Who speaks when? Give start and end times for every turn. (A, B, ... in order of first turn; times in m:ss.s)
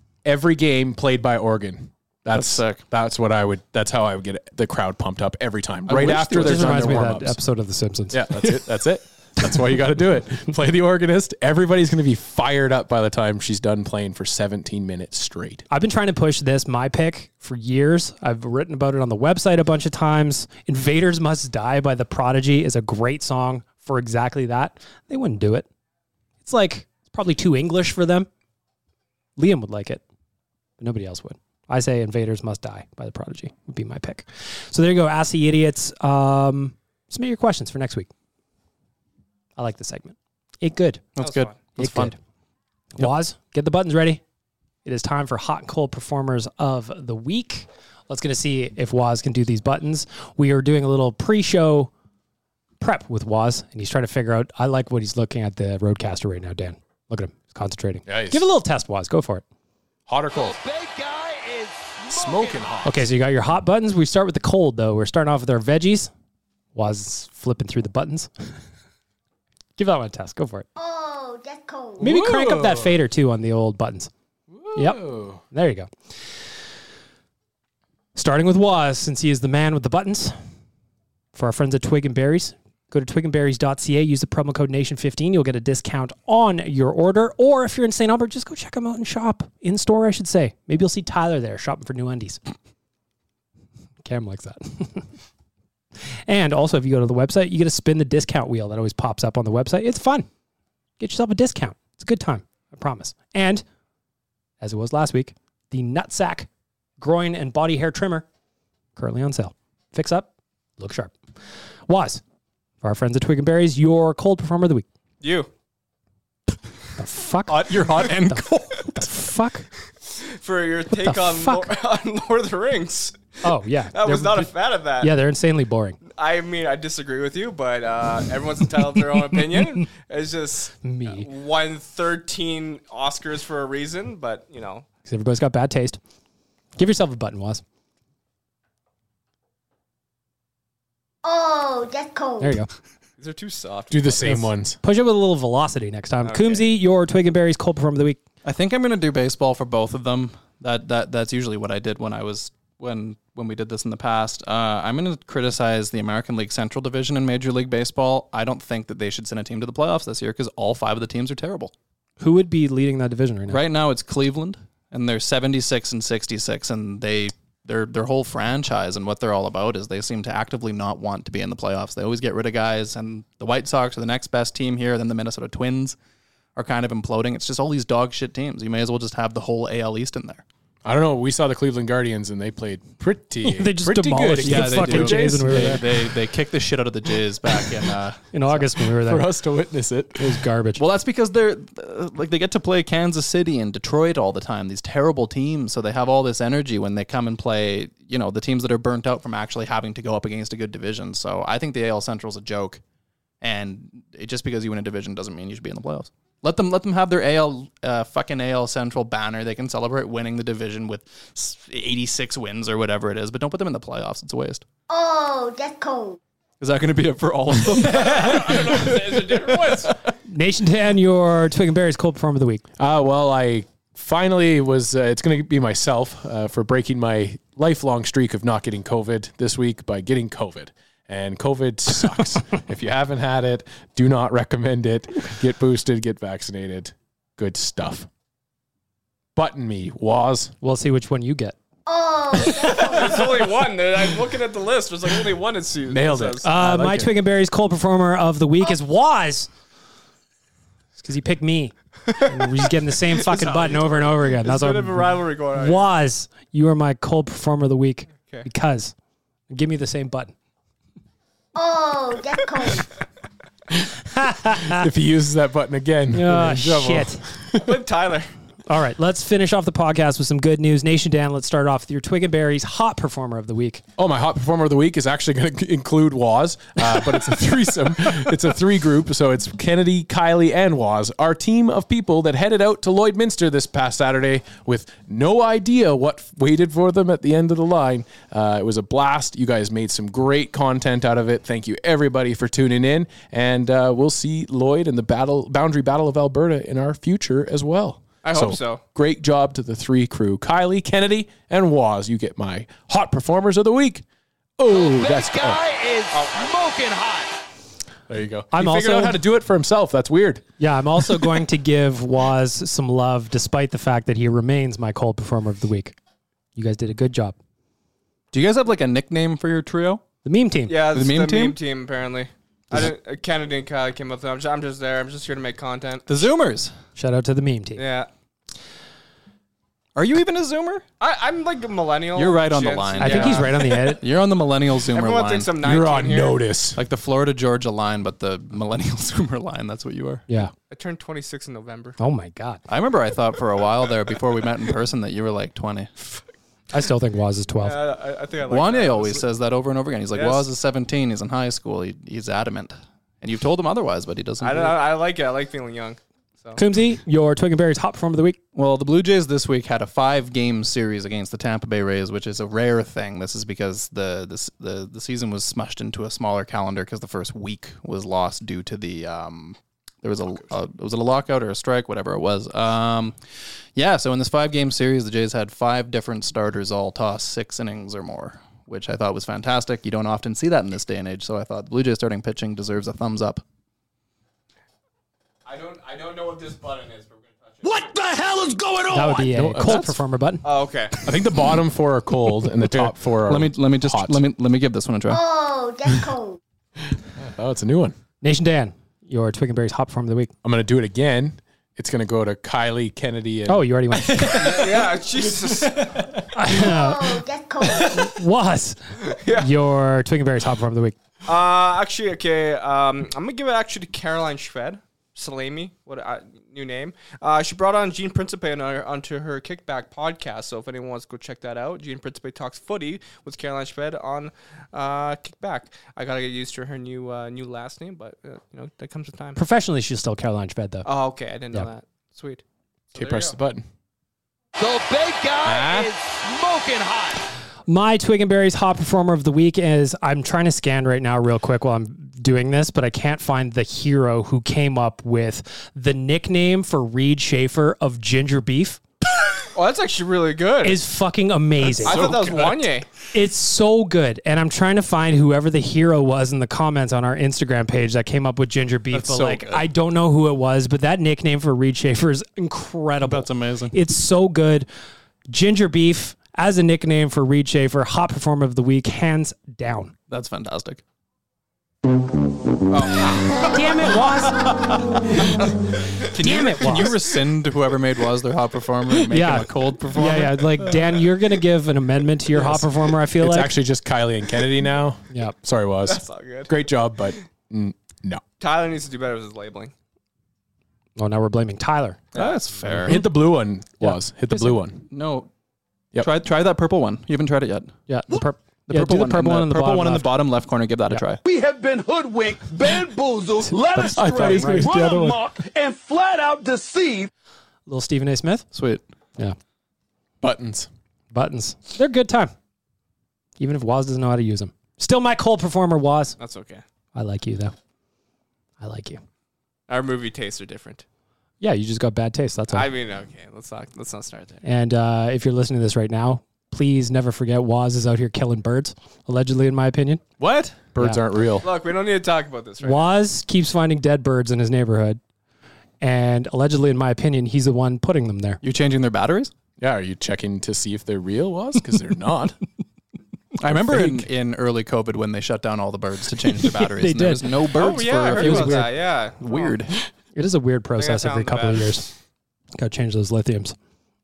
0:00.2-0:07.4 A
0:02.3-0:02.8 B
0:05.9-0:07.1 B
0:06.3-0:08.5 C
0:08.1-0:15.6 A
0:15.7-0:25.7 C
0:26.4-0:28.3 C
0:29.4-0:30.0 C
0:30.8-0:38.1 C
0:39.6-0:41.0 C
0:41.2-0:42.1 B
0:41.2-0:41.6 D
0:41.8-0:42.2 C
0:42.9-0:44.2 C
0:44.8-0:51.9 C
0:52.8-0:59.4 C
0:58.0-0:58.5 A
1:00.1-1:00.6 A
1:00.3-1:02.8 E
1:02.1-1:03.1 A
1:02.8-1:06.1 C
1:06.7-1:08.3 C
1:09.8-1:10.7 C
1:10.8-1:12.0 F
1:12.0-1:13.0 A
1:12.0-1:14.1 C
1:14.5-1:15.4 A
1:14.7-1:15.9 C
1:18.1-1:20.3 C
1:21.3-1:32.4 C
1:34.0-1:35.1 C
1:36.3-1:40.3 C
1:41.0-1:43.6 C
1:44.6-1:46.5 C
1:47.0-1:48.2 C
1:49.0-1:51.1 C
1:51.9-1:52.2 C
1:52.8-1:54.8 C
1:55.2-1:55.5 D
1:57.0-1:59.7 C
1:57.5-1:58.5 B
2:00.1-2:03.2 D
2:00.9-2:01.7 C
2:03.4-2:06.0 C
2:03.9-2:05.1 D
2:06.1-2:14.8 D
2:09.5-2:09.8 C
2:10.8-2:11.3 C
2:15.0-2:16.0 C
2:16.8-2:17.6 C
2:21.2-2:22.6 F
2:22.4-2:22.7 C
2:23.2-2:24.4 D
2:23.9-2:24.8 A
2:24.2-2:28.2 C
2:26.2-2:26.7 D
2:28.4-2:41.7 B
2:42.2-2:43.6 C
2:43.5-2:56.0 B
2:56.6-3:00.4 B
3:00.8-3:06.0 A
3:03.4-3:05.8 C
3:04.4-3:08.7 B
3:08.3-3:09.3 C
3:08.9-3:10.4 A
3:10.2-3:10.8 C
3:10.8-3:22.8 B
3:23.4-3:34.6 B
3:34.9-3:36.2 F
3:36.6-3:39.0 B
3:37.8-3:39.9 D
3:40.3-3:42.6 C
3:42.8-3:58.1 A
3:59.4-4:00.5 A
4:00.6-4:01.5 C
4:01.8-4:03.3 F
4:02.8-4:06.5 D
4:05.9-4:07.2 A
4:06.4-4:09.5 C
4:11.0-4:18.9 C
4:12.1-4:12.5 D
4:13.0-4:15.9 D
4:19.5-4:20.3 C
4:21.5-4:22.9 F
4:24.1-4:24.8 C
4:24.6-4:27.8 A
4:26.1-4:27.2 C
4:27.6-4:28.3 D
4:28.7-4:33.8 C
4:34.0-5:04.0 A
4:58.2-4:58.8 D
5:04.6-5:05.6 A
5:04.7-5:07.3 E
5:06.1-5:06.5 D
5:08.1-5:10.4 A
5:08.5-5:09.2 C
5:10.6-5:15.9 C
5:11.0-5:11.3 A
5:16.6-5:17.4 C
5:18.3-5:20.0 B
5:20.2-5:20.8 C
5:20.7-5:26.1 D
5:20.9-5:21.6 B
5:26.1-5:26.7 B
5:27.0-5:27.8 C
5:27.8-5:28.1 D
5:30.0-5:30.8 B
5:31.0-5:34.0 D
5:32.1-5:35.5 B
5:33.0-5:34.0 C
5:34.8-5:36.4 D
5:35.6-5:36.8 A
5:36.8-5:40.2 B
5:40.7-5:42.0 D
5:42.0-5:42.6 C
5:42.7-5:46.1 B
5:46.7-5:47.8 C
5:47.6-5:49.2 D
5:48.5-5:54.8 B
5:50.1-5:50.5 D
5:54.4-5:56.6 D
5:56.6-5:58.4 C
5:58.5-6:13.2 B
6:13.7-6:23.4 B
6:25.4-6:27.9 D
6:27.6-6:29.4 E
6:28.9-6:30.4 C
6:29.3-6:29.8 A
6:29.6-6:29.9 B
6:30.4-6:31.1 D
6:31.0-6:34.2 A
6:33.2-6:35.2 B
6:35.1-6:36.4 F
6:37.2-6:38.0 A
6:38.2-6:40.3 C
6:40.4-6:44.0 A
6:43.5-6:44.7 C
6:44.3-6:46.1 D
6:46.2-6:47.2 C
6:46.5-6:47.9 F
6:47.7-6:48.1 D
6:47.8-6:48.8 C
6:49.0-6:49.5 D
6:49.3-6:51.0 C
6:51.2-7:09.4 D
7:09.4-7:10.8 C
7:10.8-7:13.4 D
7:12.9-7:13.6 A
7:14.6-7:17.2 E
7:15.4-7:15.9 A
7:17.7-7:28.8 C
7:29.5-7:30.8 D
7:30.6-7:32.1 C
7:31.8-7:32.9 D
7:31.8-7:32.6 A
7:33.1-7:44.7 C
7:38.9-7:39.6 B
7:43.0-7:43.7 B
7:45.3-7:49.9 C
7:50.1-7:50.8 B
7:52.7-7:53.2 B
7:53.5-7:54.6 C
7:56.0-8:00.6 B
7:56.2-7:57.0 C
7:59.1-8:03.5 C
8:02.3-8:08.2 A
8:05.8-8:06.5 D
8:08.4-8:09.7 D
8:11.0-8:12.0 C
8:12.1-8:12.4 D
8:12.1-8:13.0 B
8:12.8-8:14.8 A
8:13.8-8:14.6 C
8:14.9-8:15.3 B
8:16.0-8:17.7 B
8:17.9-8:20.1 C
8:18.7-8:21.2 B
8:21.2-8:27.1 E
8:23.7-8:25.0 C
8:23.8-8:25.2 A
8:27.7-8:28.4 C
8:28.5-8:28.8 B
8:30.2-8:30.7 A
8:31.1-8:32.3 C
8:33.4-8:36.2 C
8:36.2-8:36.6 D
8:36.9-8:37.5 C
8:38.6-8:39.0 C
8:39.7-8:40.8 D
8:41.4-8:42.7 C
8:42.5-8:44.4 D
8:44.4-8:50.0 C
8:50.2-8:50.6 B
8:50.2-8:51.5 A
8:51.4-8:52.9 D
8:52.6-8:55.0 C
8:55.8-8:58.4 C
8:58.4-8:59.3 B
8:59.6-9:02.4 A
9:03.4-9:09.7 B
9:03.4-9:04.0 A
9:06.4-9:08.7 C
9:07.6-9:09.6 D
9:10.2-9:11.9 C
9:10.8-9:11.8 D
9:12.6-9:13.6 C